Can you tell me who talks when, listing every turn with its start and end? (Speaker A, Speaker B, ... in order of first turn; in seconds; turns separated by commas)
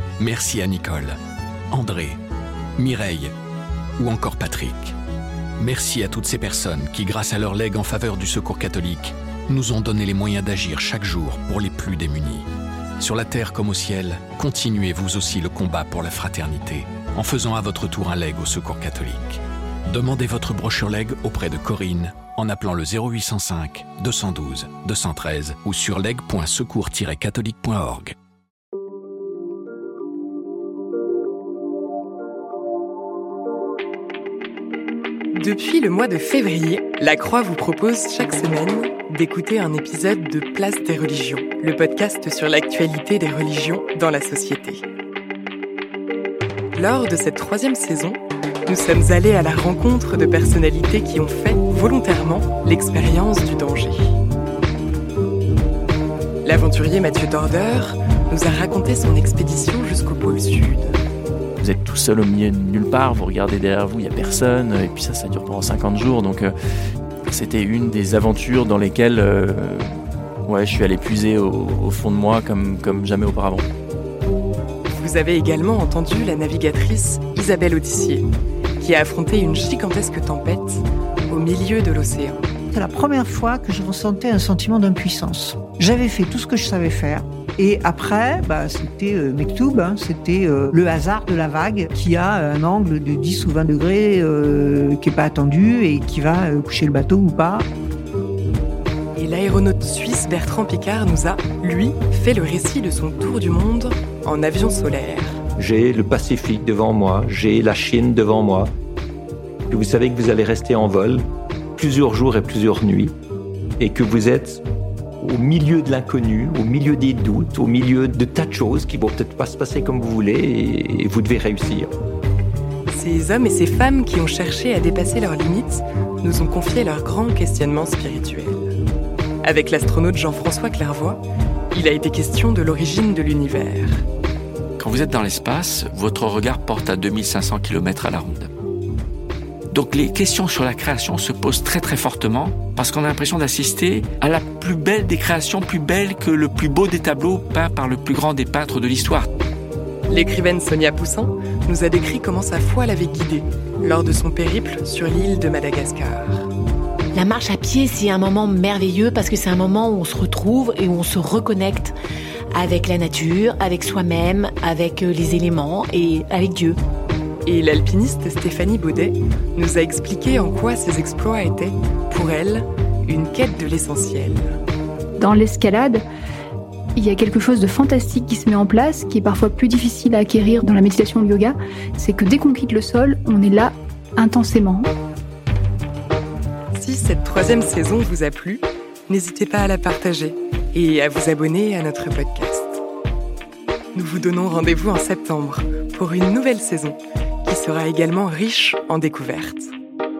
Speaker A: 0.2-1.2, Speaker A: 1.7-2.2, Speaker A: 2.8-3.3, Speaker A: 4.0-5.0, Speaker A: 5.6-12.5, Speaker A: 13.0-28.1, Speaker B: 35.3-44.9, Speaker B: 46.8-54.2, Speaker B: 56.5-61.0, Speaker C: 61.6-66.5, Speaker C: 67.3-73.7, Speaker B: 74.9-78.3, Speaker B: 78.8-82.4, Speaker D: 82.7-97.7, Speaker B: 99.2-105.4, Speaker E: 105.6-108.7, Speaker E: 109.7-113.2, Speaker E: 113.8-114.6, Speaker E: 115.2-121.9, Speaker B: 122.9-128.7, Speaker B: 129.4-134.0, Speaker F: 134.8-138.5, Speaker F: 139.7-149.3, Speaker B: 150.1-156.5, Speaker G: 157.1-162.0, Speaker G: 162.5-166.8, Speaker B: 167.5-174.5, Speaker H: 175.2-176.1, Speaker H: 177.0-184.9, Speaker B: 186.7-192.8, Speaker B: 193.9-199.7